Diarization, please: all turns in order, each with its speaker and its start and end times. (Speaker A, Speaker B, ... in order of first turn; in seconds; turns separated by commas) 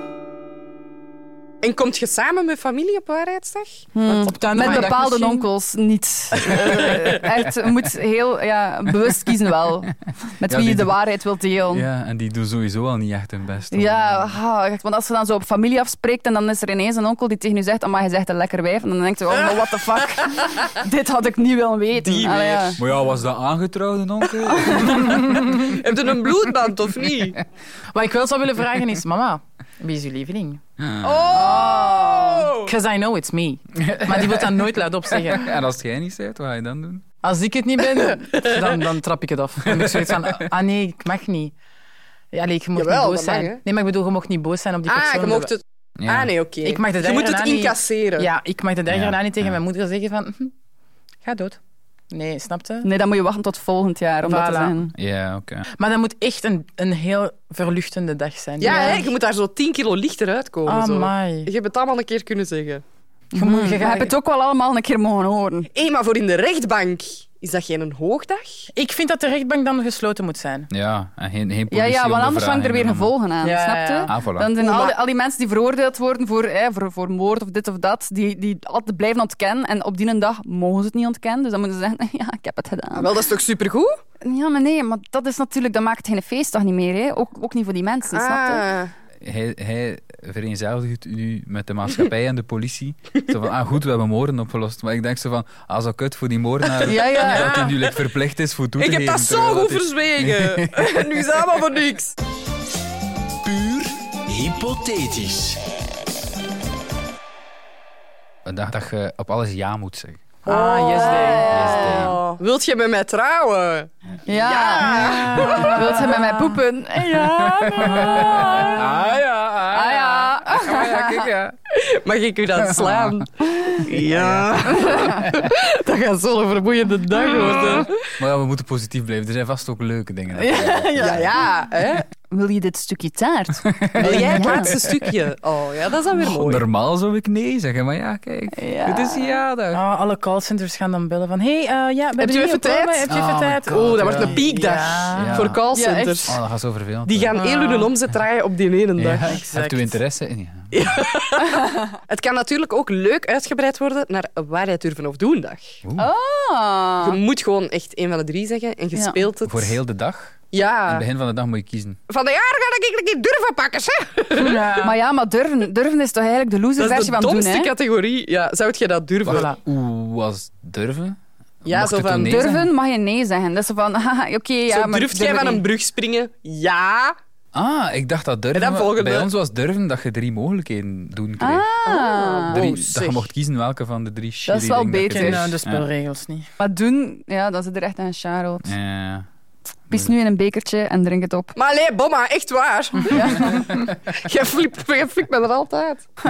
Speaker A: 1.6-4.9, Speaker B: 4.0-11.9, Speaker C: 4.1-5.5, Speaker D: 10.5-11.0, Speaker D: 11.7-14.4, Speaker B: 13.7-22.8, Speaker A: 21.9-22.8, Speaker D: 22.8-25.3, Speaker B: 24.5-25.1, Speaker C: 25.3-25.6, Speaker A: 25.5-27.4, Speaker C: 27.9-30.6, Speaker D: 30.8-31.2, Speaker A: 31.0-32.7, Speaker B: 31.3-32.5, Speaker C: 32.6-35.5, Speaker D: 33.8-34.5, Speaker D: 35.2-37.0, Speaker C: 37.2-41.5, Speaker C: 42.3-45.5, Speaker A: 42.8-43.6, Speaker A: 44.9-48.3, Speaker D: 46.0-46.3, Speaker C: 46.6-50.5, Speaker D: 48.9-49.6, Speaker C: 51.2-51.6, Speaker C: 52.1-52.9, Speaker B: 52.8-54.9, Speaker C: 54.2-54.8, Speaker D: 55.0-55.7, Speaker C: 55.8-59.1, Speaker A: 58.6-62.8, Speaker B: 58.6-59.0, Speaker C: 60.7-61.5, Speaker C: 63.3-64.1, Speaker B: 63.3-65.7, Speaker A: 65.7-68.7, Speaker C: 68.7-70.7, Speaker D: 70.7-73.1, Speaker B: 71.7-83.1, Speaker C: 73.4-74.1, Speaker D: 74.1-74.5, Speaker A: 74.6-75.0, Speaker A: 83.0-84.0, Speaker B: 84.2-88.6, Speaker A: 88.1-88.9, Speaker D: 89.2-101.0, Speaker B: 96.8-97.6, Speaker C: 97.3-97.7, Speaker A: 98.8-102.2, Speaker E: 103.5-105.7, Speaker D: 108.5-110.2, Speaker C: 110.4-111.6, Speaker A: 110.5-113.9, Speaker B: 110.9-112.2, Speaker D: 111.5-112.2, Speaker B: 114.3-118.7, Speaker A: 114.5-119.1, Speaker C: 115.0-116.2, Speaker D: 117.8-119.9, Speaker B: 119.7-121.3, Speaker A: 120.4-127.9, Speaker D: 122.8-123.1, Speaker D: 124.1-124.5, Speaker D: 128.2-131.3, Speaker B: 130.4-131.2, Speaker A: 131.0-132.1, Speaker B: 132.3-134.8, Speaker D: 133.7-134.6, Speaker A: 134.0-136.7, Speaker D: 136.3-139.8, Speaker B: 138.6-139.3, Speaker C: 139.7-145.4, Speaker A: 142.2-143.1, Speaker D: 143.1-144.3, Speaker A: 143.7-146.4, Speaker D: 145.2-145.6, Speaker B: 145.7-146.3, Speaker D: 146.3-147.4, Speaker A: 147.1-149.4, Speaker C: 147.3-147.9, Speaker D: 149.0-150.8, Speaker C: 149.3-150.0, Speaker A: 150.7-155.7, Speaker D: 155.8-156.1, Speaker B: 156.0-157.2, Speaker A: 157.0-159.8, Speaker B: 158.9-159.2, Speaker D: 159.4-160.4, Speaker A: 160.5-161.1, Speaker D: 160.9-162.0, Speaker A: 162.1-164.8, Speaker C: 164.3-165.0, Speaker B: 164.8-167.7, Speaker A: 166.8-169.5, Speaker D: 169.2-172.7, Speaker C: 169.3-169.6, Speaker A: 171.7-172.5, Speaker B: 172.3-175.6, Speaker A: 174.7-177.2, Speaker D: 177.5-181.7, Speaker A: 178.5-179.3, Speaker B: 181.4-182.6, Speaker A: 181.8-183.3, Speaker D: 182.5-185.8, Speaker B: 184.5-185.5, Speaker C: 185.1-186.5, Speaker B: 186.6-188.7, Speaker D: 188.6-189.2, Speaker B: 189.9-191.5, Speaker A: 191.6-196.1, Speaker B: 193.1-193.6